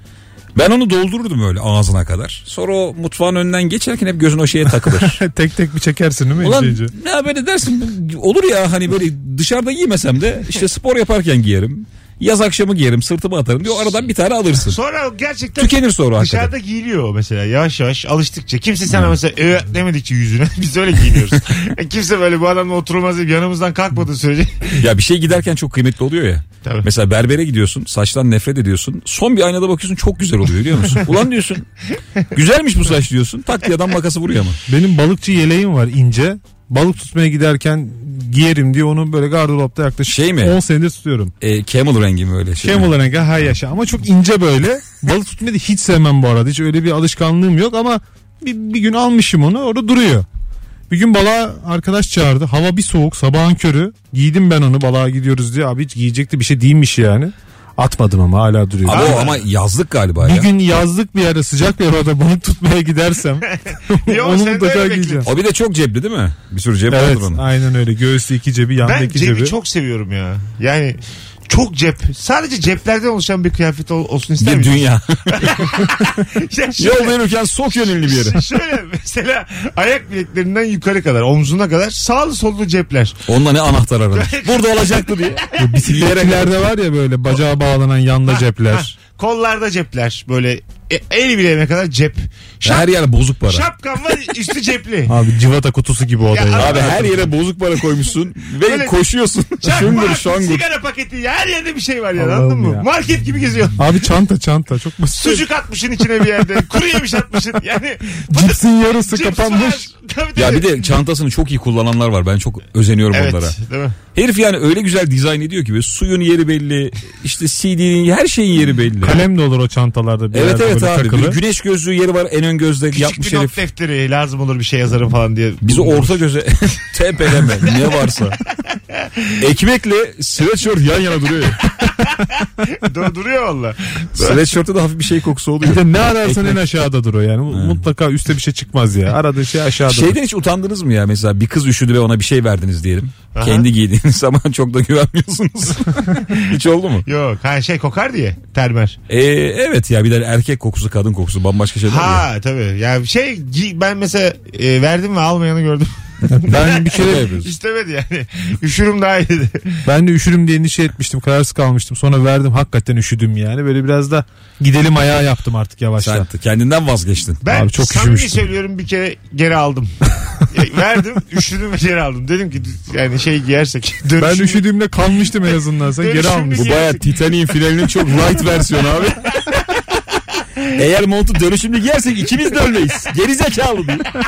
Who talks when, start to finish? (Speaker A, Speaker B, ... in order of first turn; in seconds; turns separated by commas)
Speaker A: 0.6-5.2, Speaker B: 4.7-6.9, Speaker A: 6.4-14.8, Speaker C: 14.7-24.8, Speaker A: 15.6-16.5, Speaker A: 24.8-31.7, Speaker C: 26.6-26.9, Speaker A: 32.3-34.6, Speaker B: 34.7-41.3, Speaker A: 40.1-40.6, Speaker A: 41.4-43.0, Speaker B: 42.6-50.2, Speaker B: 50.9-59.2, Speaker A: 58.8-60.5, Speaker C: 58.9-59.4, Speaker B: 60.2-65.3, Speaker C: 63.5-65.3, Speaker A: 65.2-67.4, Speaker B: 66.9-69.5, Speaker C: 68.8-77.2, Speaker A: 74.4-75.9, Speaker A: 76.8-78.4, Speaker C: 77.7-83.2, Speaker A: 83.3-86.5, Speaker C: 84.1-85.6, Speaker B: 85.6-88.9, Speaker C: 88.3-92.9, Speaker A: 92.6-93.7, Speaker C: 93.5-95.1, Speaker B: 95.1-97.2, Speaker C: 96.3-97.3, Speaker A: 96.5-100.6, Speaker C: 98.6-99.0, Speaker C: 99.6-104.1, Speaker B: 102.2-102.9, Speaker B: 103.8-105.5, Speaker C: 105.2-111.0, Speaker B: 108.3-109.9, Speaker A: 110.4-113.6, Speaker C: 113.1-114.0, Speaker A: 114.2-119.3, Speaker B: 119.0-121.4, Speaker A: 120.3-123.6, Speaker C: 123.0-126.2, Speaker A: 125.6-128.4, Speaker C: 127.4-127.9, Speaker C: 128.7-129.3, Speaker A: 129.4-131.8, Speaker C: 131.9-134.5, Speaker A: 134.2-136.6, Speaker B: 135.6-140.2, Speaker A: 137.5-137.8, Speaker A: 139.9-147.1, Speaker C: 143.3-143.7, Speaker C: 147.1-149.0, Speaker A: 149.1-152.2, Speaker C: 151.9-155.9, Speaker B: 156.3-157.3, Speaker C: 156.5-159.8, Speaker A: 156.8-157.5, Speaker B: 159.8-166.3, Speaker A: 166.0-167.4, Speaker C: 167.4-174.7, Speaker B: 167.5-168.4, Speaker B: 174.2-176.8, Speaker C: 176.0-177.2, Speaker A: 176.6-179.3, Speaker A: 180.7-184.1